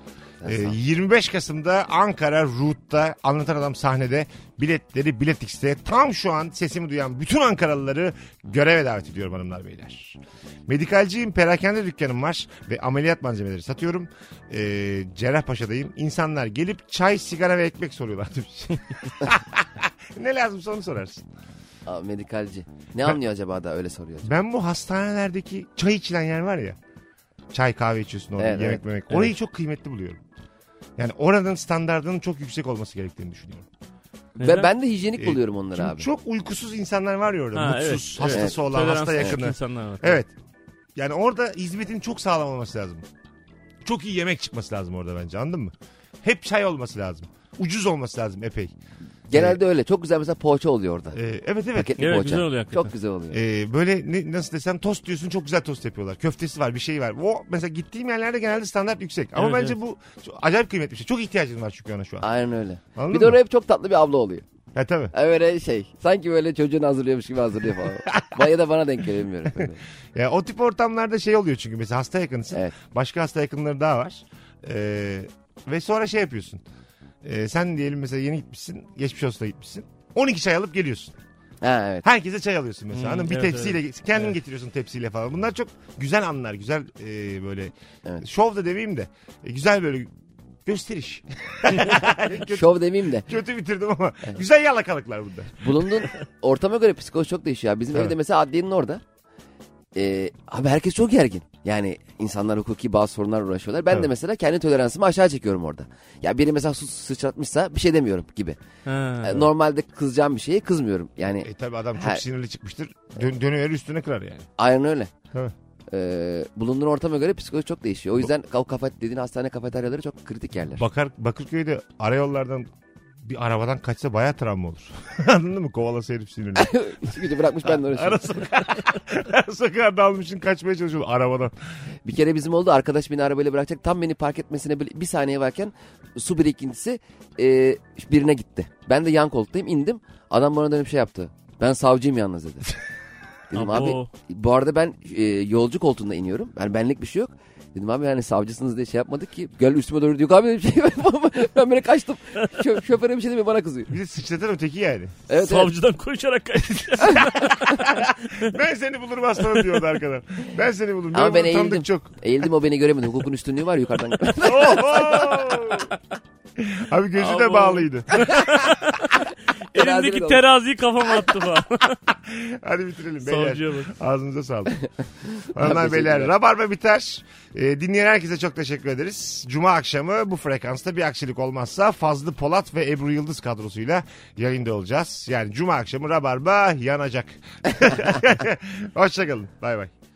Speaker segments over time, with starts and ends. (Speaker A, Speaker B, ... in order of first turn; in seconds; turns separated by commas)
Speaker A: 0.4-0.8, Speaker B: 0.4-21.3, Speaker A: 21.9-24.3, Speaker B: 24.2-26.8, Speaker B: 27.5-30.2, Speaker A: 28.4-28.8, Speaker B: 31.0-33.7, Speaker C: 34.4-34.7, Speaker A: 34.4-36.1, Speaker B: 35.2-40.3, Speaker C: 37.5-40.2, Speaker A: 38.2-38.6, Speaker B: 41.0-43.0, Speaker B: 43.8-48.7, Speaker A: 49.3-51.2, Speaker B: 49.3-49.6, Speaker B: 51.1-52.3, Speaker A: 51.8-53.4, Speaker C: 52.0-52.9, Speaker B: 53.3-62.3, Speaker C: 59.4-59.8, Speaker A: 62.2-64.5, Speaker B: 63.0-63.4, Speaker B: 64.7-65.1, Speaker A: 65.1-69.8, Speaker B: 68.1-68.4, Speaker B: 70.2-76.6, Speaker B: 77.2-81.2, Speaker A: 81.6-82.1, Speaker B: 82.0-90.1, Speaker C: 82.9-83.8, Speaker B: 90.7-96.1, Speaker A: 92.5-93.3, Speaker A: 95.6-99.0, Speaker A: 100.0-108.6, Speaker C: 108.8-109.5, Speaker A: 109.2-112.2, Speaker B: 111.4-114.5, Speaker A: 114.6-115.1, Speaker A: 115.9-120.8, Speaker B: 120.8-122.7, Speaker B: 123.2-127.1, Speaker A: 126.6-128.2, Speaker B: 127.6-131.6, Speaker A: 132.1-142.7, Speaker A: 143.5-153.9, Speaker C: 143.5-144.1, Speaker B: 153.9-155.2, Speaker A: 155.3-155.7, Speaker C: 155.3-157.9, Speaker B: 157.1-162.1, Speaker A: 161.1-165.5, Speaker B: 164.4-165.9, Speaker B: 166.6-168.5, Speaker C: 167.2-169.1, Speaker C: 169.7-172.0, Speaker A: 169.7-170.4, Speaker B: 172.1-174.8, Speaker C: 173.2-173.9, Speaker A: 175.2-176.3, Speaker B: 175.5-189.9